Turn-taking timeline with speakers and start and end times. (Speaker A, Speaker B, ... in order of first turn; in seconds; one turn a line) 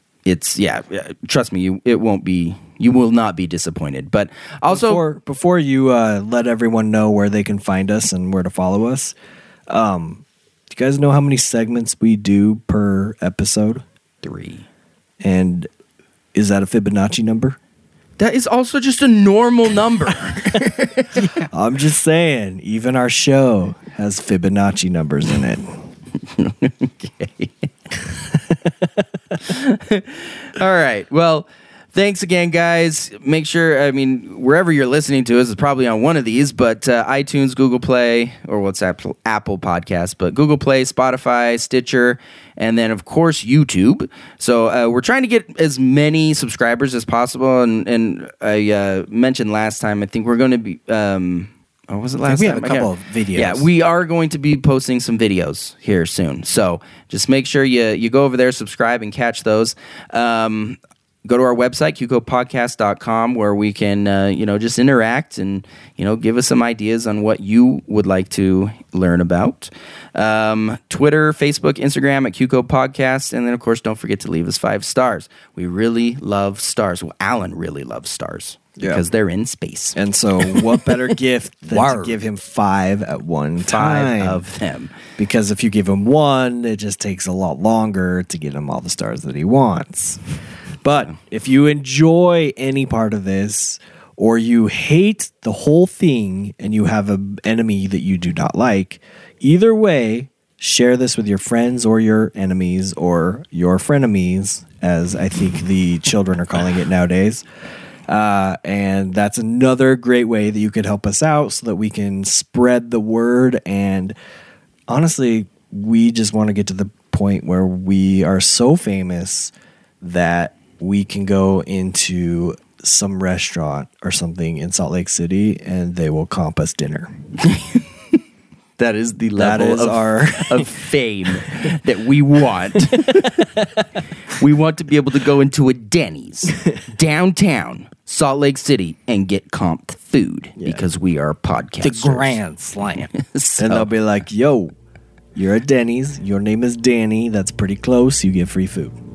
Speaker A: 0.2-5.0
Speaker B: 4.7-9.2
Speaker B: 9.7-13.8
Speaker A: 14.2-14.7
Speaker B: 15.2-15.7
Speaker B: 16.3-17.6
Speaker A: 18.2-21.4
Speaker B: 21.5-25.9
Speaker A: 26.3-28.3
Speaker A: 29.4-80.8
Speaker C: 52.2-53.7
Speaker B: 78.8-79.0
Speaker B: 80.0-84.5
Speaker C: 81.7-82.2
Speaker A: 83.6-84.9
Speaker B: 85.2-90.2
Speaker B: 90.8-107.4
Speaker B: 108.1-114.2
Speaker B: 114.9-127.2
Speaker A: 127.4-127.8
Speaker A: 128.8-133.5
Speaker B: 129.4-131.3
Speaker B: 132.8-133.8
Speaker A: 134.3-142.4
Speaker B: 140.6-140.8
Speaker C: 141.8-143.1
Speaker A: 142.9-143.9
Speaker B: 143.6-144.7
Speaker B: 145.3-149.0